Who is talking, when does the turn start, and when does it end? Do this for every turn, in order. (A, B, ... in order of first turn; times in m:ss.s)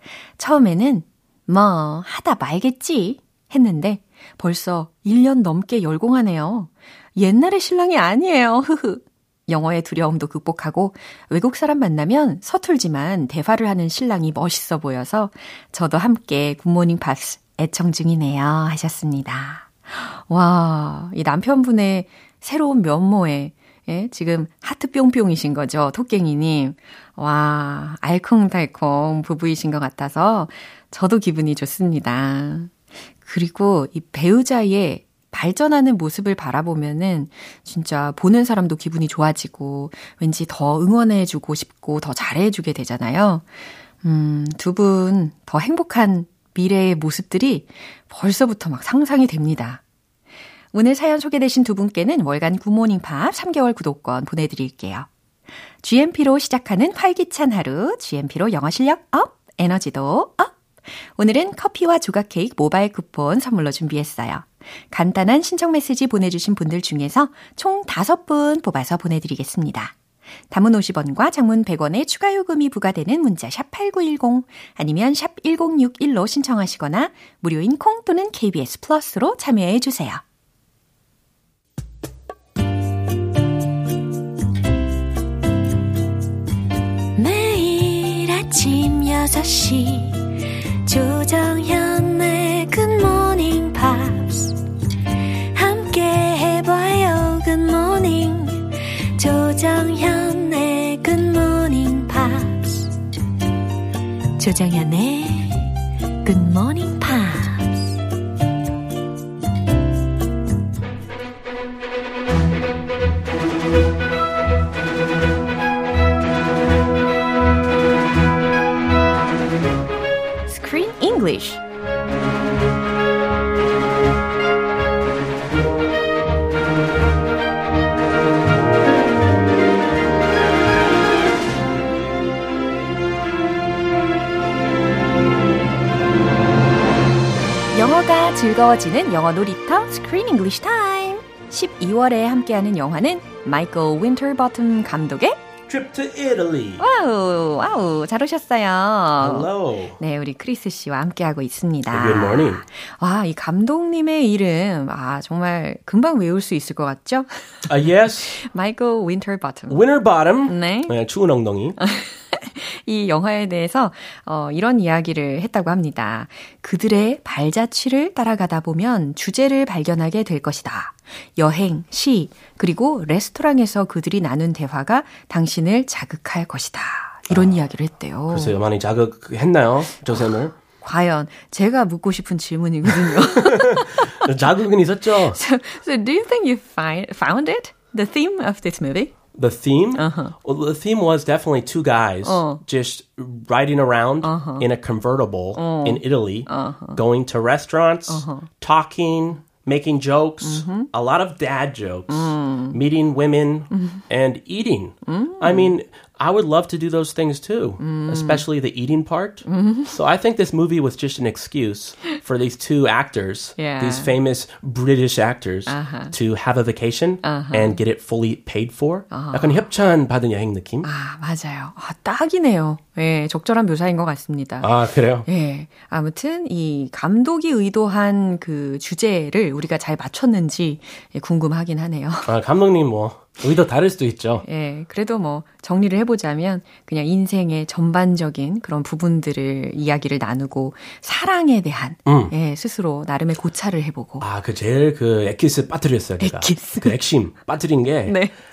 0:00.4-0:32.7 A
0:33.2-0:43.5 A
0:44.0-0:49.8 A
0:50.7-0:55.1 A
0:55.8-1:00.5 A
1:01.2-1:09.9 A
1:10.5-1:20.2 A
1:27.2-1:30.2 A
1:30.8-1:34.5 A
1:35.5-1:38.6 A
1:39.2-1:42.9 A
1:44.4-1:45.7 A
1:46.2-1:47.8 A
2:00.5-2:01.6 A
2:17.7-2:25.4 A
2:25.7-2:26.8 B
2:26.8-2:39.8 A
2:29.2-2:30.0 B
2:31.9-2:32.6 B
2:37.7-2:38.4 B
2:39.7-2:41.8 B
2:40.4-2:40.9 A
2:41.8-2:58.5 A
2:58.3-3:00.5 B
3:00.8-3:04.3 A
3:03.1-3:05.4 B
3:05.3-3:09.1 A
3:09.3-3:40.9 B
3:10.0-3:10.3 A
3:12.2-3:12.6 A
3:14.2-3:14.6 A
3:15.6-3:17.0 A
3:18.1-3:18.5 A
3:20.4-3:20.9 A
3:22.1-3:22.8 A
3:25.0-3:25.7 A
3:27.8-3:28.4 A
3:29.5-3:29.9 A
3:33.6-3:34.1 A
3:35.7-3:36.1 A
3:37.2-3:37.8 A
3:39.1-3:39.6 A
3:40.8-3:44.7 A
3:44.6-3:45.3 B
3:45.2-3:52.3 A
3:52.3-3:54.4 B
3:54.4-4:04.2 A
4:02.0-4:02.3 B
4:04.2-4:08.2 B
4:06.2-4:07.0 A
4:08.0-4:08.3 A